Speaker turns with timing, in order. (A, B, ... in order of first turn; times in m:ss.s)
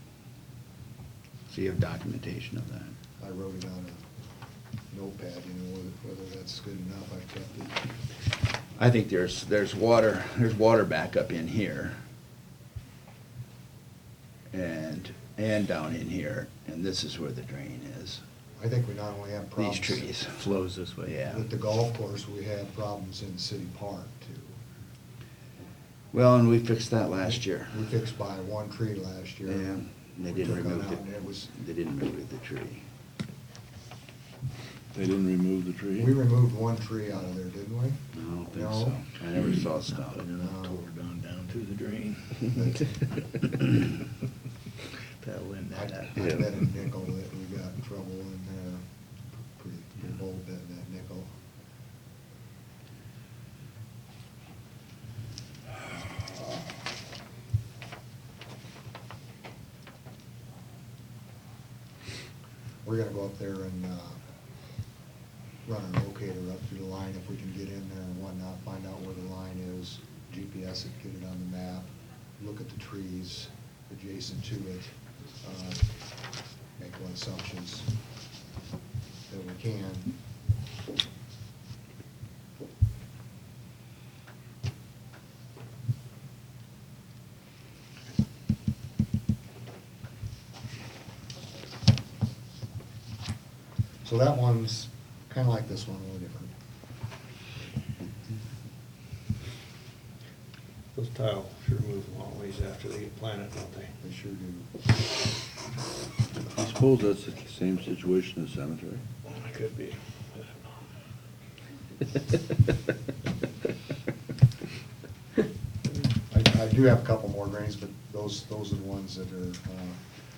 0:01.5-0:03.0 A
0:03.2-0:04.0 B
0:04.9-0:07.9 B
0:08.8-0:12.0 A
0:14.5-0:18.2 A
0:18.6-0:20.1 B
0:19.6-0:20.5 A
0:20.4-0:21.2 C
0:21.1-0:21.5 A
0:21.3-0:24.6 B
0:26.1-0:27.9 A
0:27.7-0:29.7 B
0:29.5-0:32.8 A
0:30.3-0:31.5 B
0:34.9-0:36.2 D
0:36.0-0:39.0 B
0:38.1-0:40.3 A
0:40.1-0:42.7 C
0:40.4-0:40.9 B
0:42.5-0:42.9 B
0:45.2-0:46.2 C
0:45.7-0:48.8 B
0:49.4-0:51.3 B
1:02.8-1:04.2 B
1:05.6-1:15.8 B
1:16.8-1:17.9 B
1:19.3-1:20.1 B
1:34.0-1:36.5 B
1:41.0-1:44.0 E
1:44.0-1:44.7 B
1:46.5-1:49.0 D
1:49.2-1:50.7 E
1:56.3-2:00.0 B